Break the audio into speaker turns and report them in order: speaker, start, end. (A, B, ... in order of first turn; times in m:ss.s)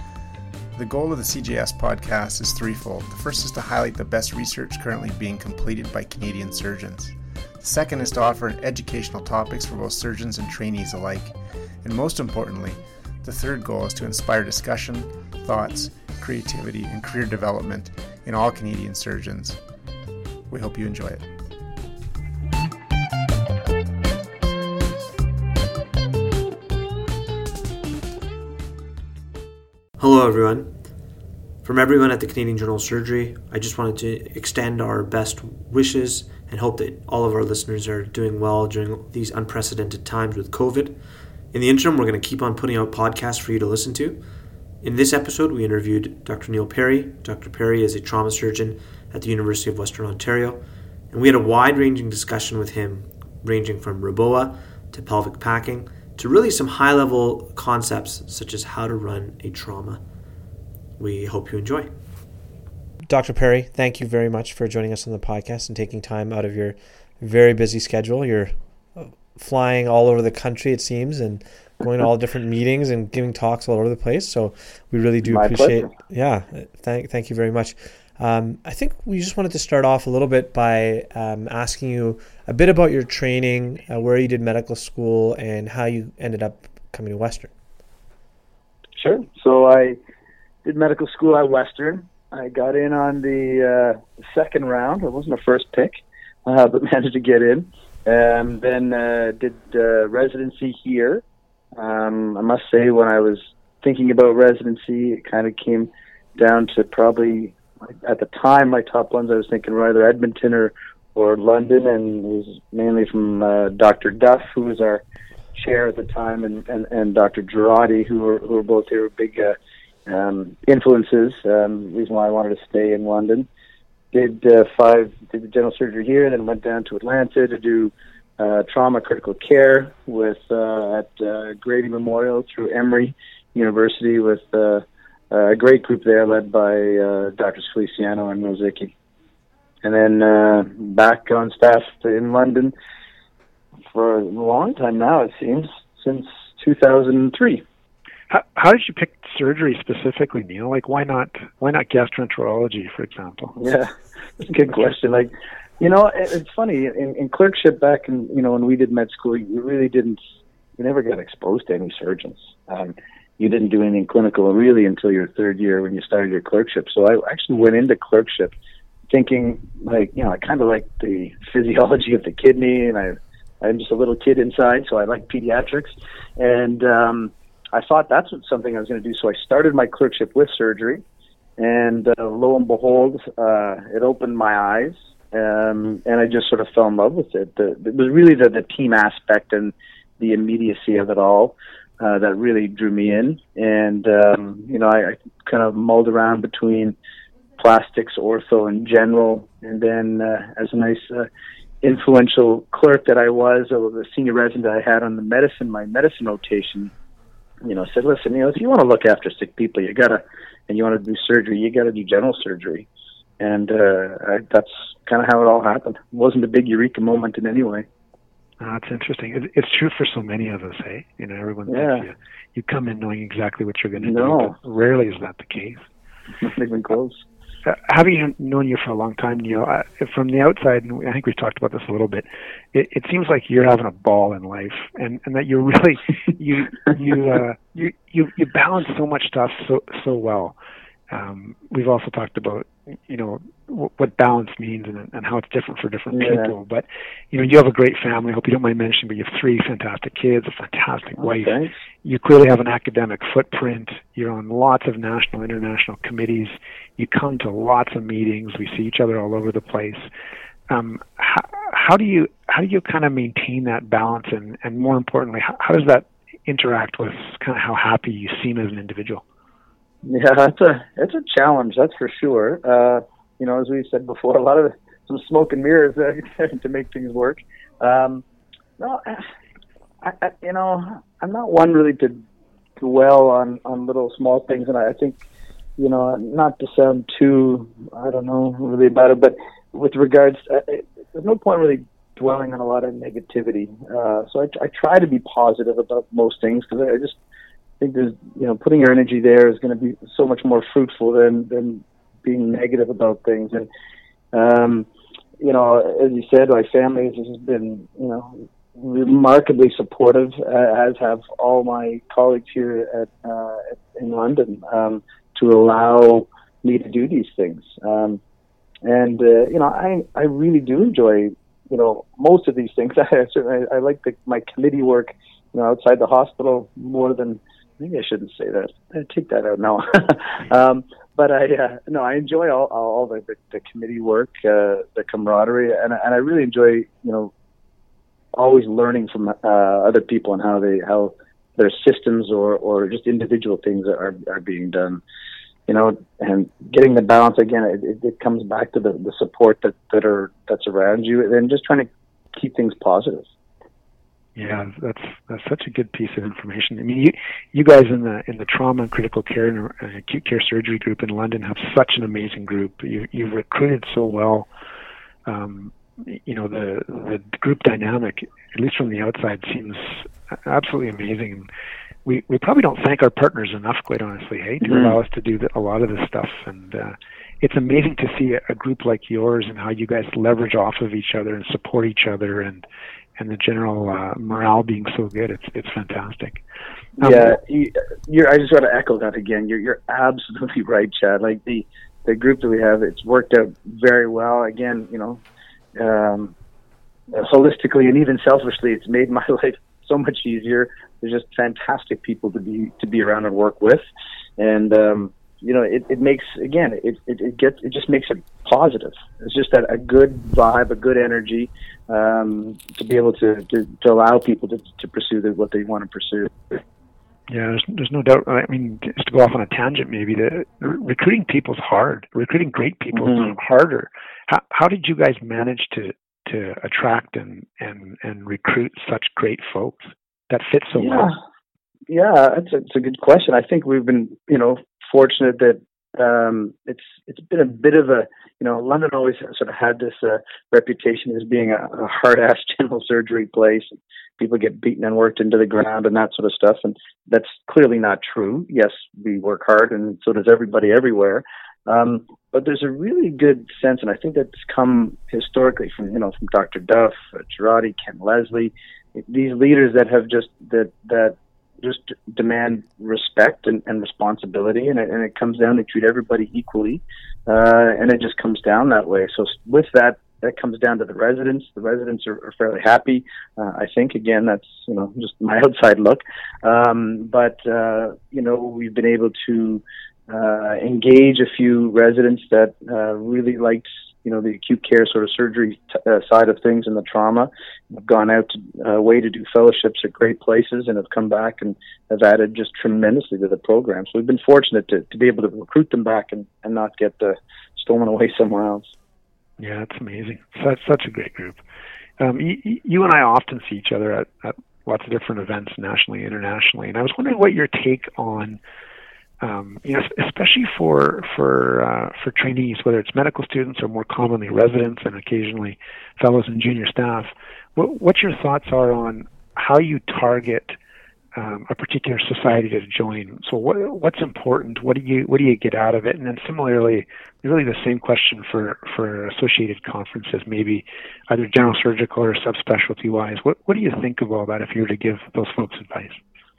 0:00.7-0:19.6 A
0:20.5-0:21.2 A
0:30.0-0:30.7 B
0:31.6-0:41.0 B
0:41.5-0:44.2 B
0:44.8-1:00.0 B
1:01.0-1:01.9 B
1:03.0-1:27.5 B
1:15.2-1:15.9 C
1:29.0-1:30.0 C
1:30.6-1:35.9 C
1:36.4-1:41.2 C
1:41.7-1:55.0 C
1:55.5-2:03.5 C
2:04.1-2:18.9 C
2:19.8-2:22.7 C
2:23.9-2:27.6 C
2:28.3-2:33.6 D
2:33.6-2:40.2 C
2:40.8-2:48.5 C
2:49.1-3:01.0 C
3:01.6-3:17.0 C
3:17.6-3:21.3 C
3:21.8-3:26.9 C
3:27.6-3:32.9 C
3:33.4-3:37.8 C
3:38.6-3:45.9 D
3:41.7-3:42.1 C
3:44.0-3:44.5 C
3:46.4-3:47.2 C
3:47.6-4:00.6 D
4:01.1-4:20.0 D
4:06.1-4:06.5 C
4:11.2-4:11.7 C
4:20.7-4:29.2 D
4:30.0-4:38.2 C
4:38.8-4:39.2 C
4:40.0-4:42.2 C
4:42.8-4:45.2 C
4:45.8-4:57.2 C
4:57.8-5:03.7 C
5:04.3-5:04.9 C
5:05.4-5:18.2 C
5:18.8-5:37.3 C
5:38.3-5:45.0 C
5:45.7-5:53.3 C
5:54.4-6:04.5 D
6:05.2-6:11.5 D
6:12.0-6:22.6 D
6:14.6-6:15.0 C
6:23.2-6:26.4 D
6:27.0-6:35.2 C
6:27.0-6:27.4 D
6:35.8-6:36.3 C
6:37.1-6:43.8 C
6:44.4-6:56.6 C
6:57.3-7:11.1 D
7:03.0-7:03.3 C
7:10.8-7:11.2 C
7:11.9-8:18.7 C
8:19.4-8:21.4 D
8:22.0-8:28.4 D
8:29.2-8:40.6 D
8:41.1-8:56.0 D